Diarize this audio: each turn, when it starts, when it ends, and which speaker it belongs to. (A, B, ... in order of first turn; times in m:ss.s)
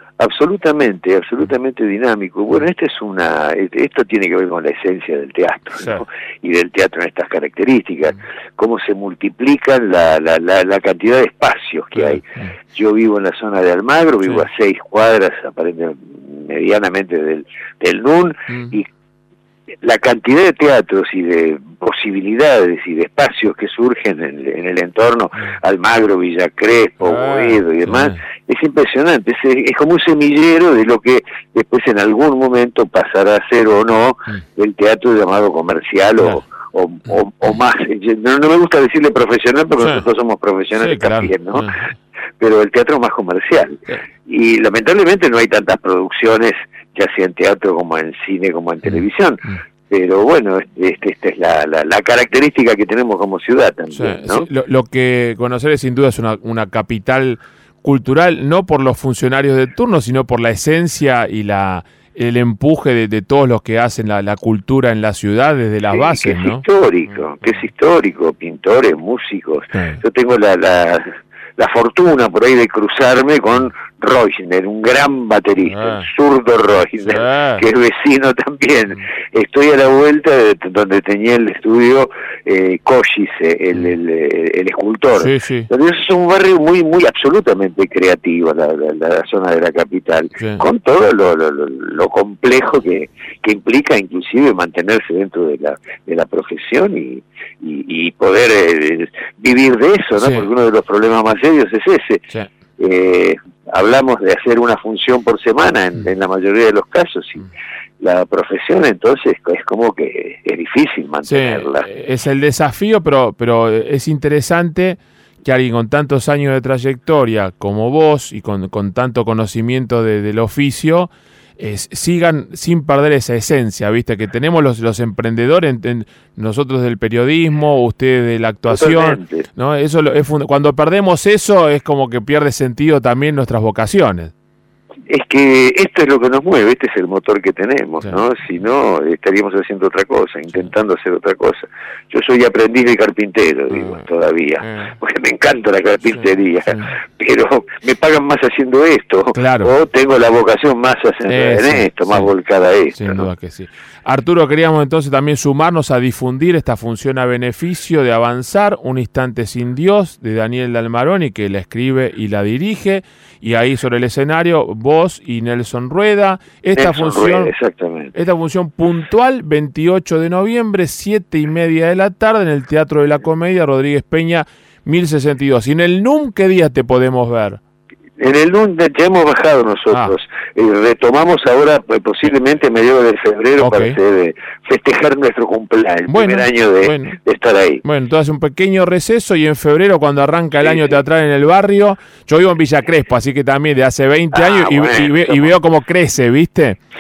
0:00.2-0:18.9 A
0:12.0-0:12.5 B
0:18.5-0:18.8 B
0:19.8-0:41.7 A
0:27.0-0:28.2 B
0:39.8-0:40.1 B
0:40.8-0:41.9 B
0:42.4-0:54.5 A
0:48.8-0:49.5 B
0:53.9-1:06.6 B
1:05.9-1:42.2 A
1:09.7-1:10.0 B
1:15.6-1:16.1 B
1:17.0-1:17.6 B
1:25.2-1:25.7 B
1:30.4-1:30.6 B
1:40.2-1:40.5 B
1:42.8-1:47.5 A
1:48.0-1:51.9 A
1:51.2-2:14.3 B
2:08.7-2:09.5 A
2:15.1-2:33.3 A
2:24.6-2:25.0 B
2:29.4-2:29.7 B
2:31.3-2:32.3 B
2:33.0-2:47.5 B
2:46.8-2:48.1 A
2:48.1-2:57.6 B
2:58.2-3:07.8 A
3:03.6-3:04.0 B
3:06.1-3:07.2 B
3:07.8-3:16.8 B
3:10.6-3:11.0 A
3:14.3-3:15.5 A